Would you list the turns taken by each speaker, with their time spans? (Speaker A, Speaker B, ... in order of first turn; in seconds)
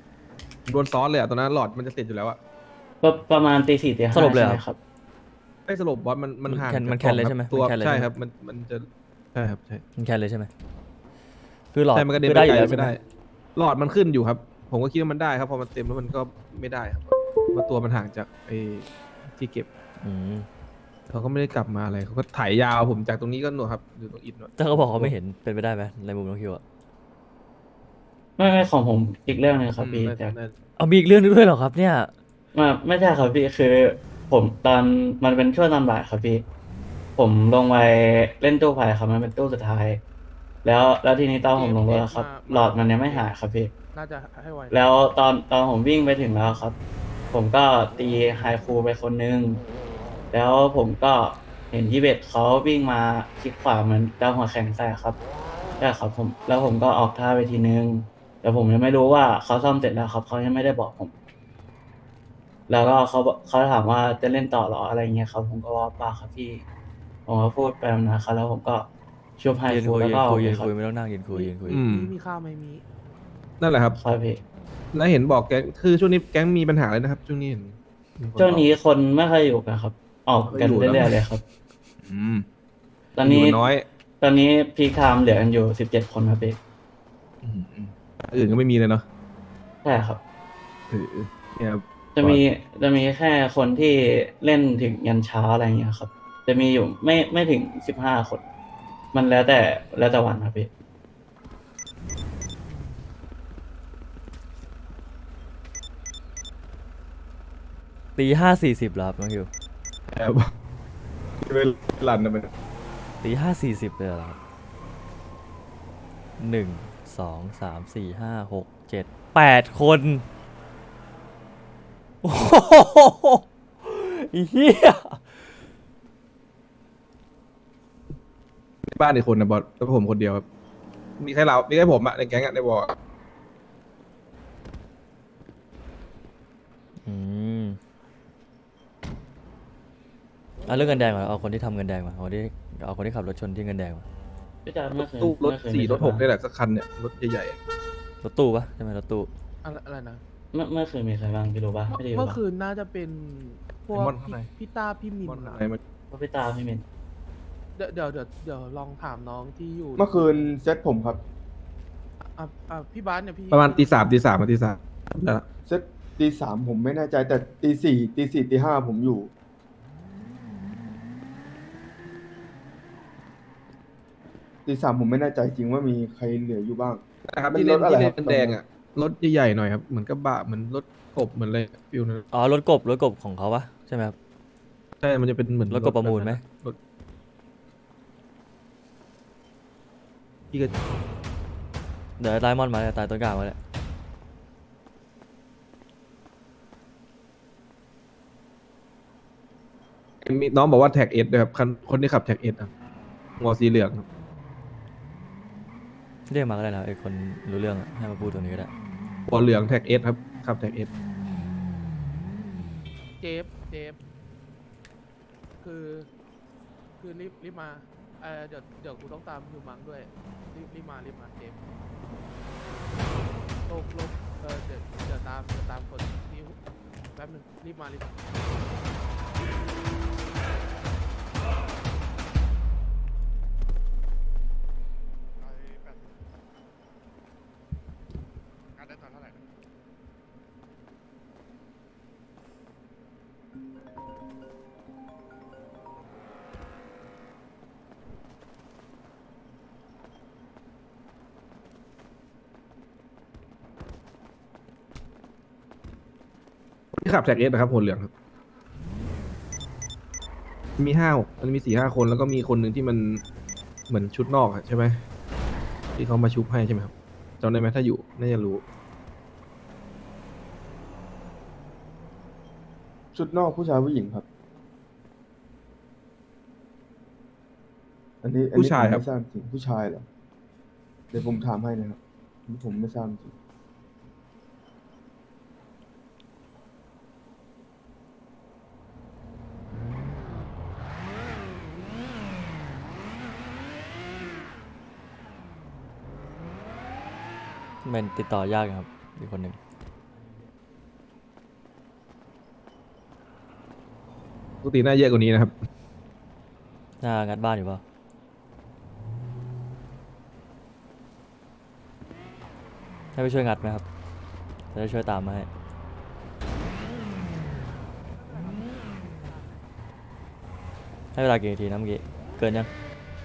Speaker A: 0.7-2.4, 5.7-9.8, 11.9-13.0, 13.6-19.7, 21.1-25.1, 29.8-30.5, 71.7-72.1, 73.6-74.0, 74.9-78.7, 80.5-81.2, 82.0-82.5, 83.2-83.8, 87.4-89.0, 90.9-92.4, 110.1-110.5, 111.4-112.5, 128.9-130.4, 131.2-132.9, 145.0-147.6, 153.9-154.5, 155.2-155.8, 163.5-165.4, 177.3-182.2, 185.0-186.8, 200.2-202.7, 203.4-204.0, 209.3-210.9, 256.9-258.1, 260.8-263.2, 263.9-265.0, 265.9-268.6, 278.5-279.0, 304.6-305.5
Speaker B: 3.0-4.8, 28.4-30.3, 32.5-36.4, 37.2-40.0, 40.6-43.7, 44.7-46.8, 47.3-49.6, 50.3-55.2, 55.8-61.1, 62.7-66.6, 67.3-68.9, 69.4-70.7, 74.0-74.4, 78.4-81.4, 83.2-83.7, 84.2-86.6, 89.8-90.2, 92.1-98.4, 99.1-100.7, 144.7-146.2, 150.5-152.4, 156.1-156.8
Speaker C: 4.1-4.6, 6.5-8.1, 10.0-10.5, 11.7-12.9, 20.0-20.5, 24.6-26.6, 30.8-32.1, 69.7-71.8, 108.2-109.5, 113.2-114.4, 116.4-120.2, 122.2-125.4, 137.0-137.8, 140.7-144.0, 148.2-149.3, 182.3-184.1, 185.7-186.4, 192.2-193.6, 206.3-208.7, 297.8-299.6, 307.0-307.8, 313.1-313.8, 314.7-315.5, 321.1-322.7
Speaker D: 41.5-43.3, 43.9-44.9, 71.3-72.8, 149.6-150.2, 151.9-155.7, 157.8-160.2, 162.3-164.1, 213.2-214.0, 215.6-216.1, 217.0-221.6, 223.7-226.6, 227.1-228.3, 318.0-319.7
Speaker E: 160.0-161.2, 165.7-169.3, 174.7-177.0, 177.5-178.6, 273.1-274.2, 278.2-280.1, 281.1-283.3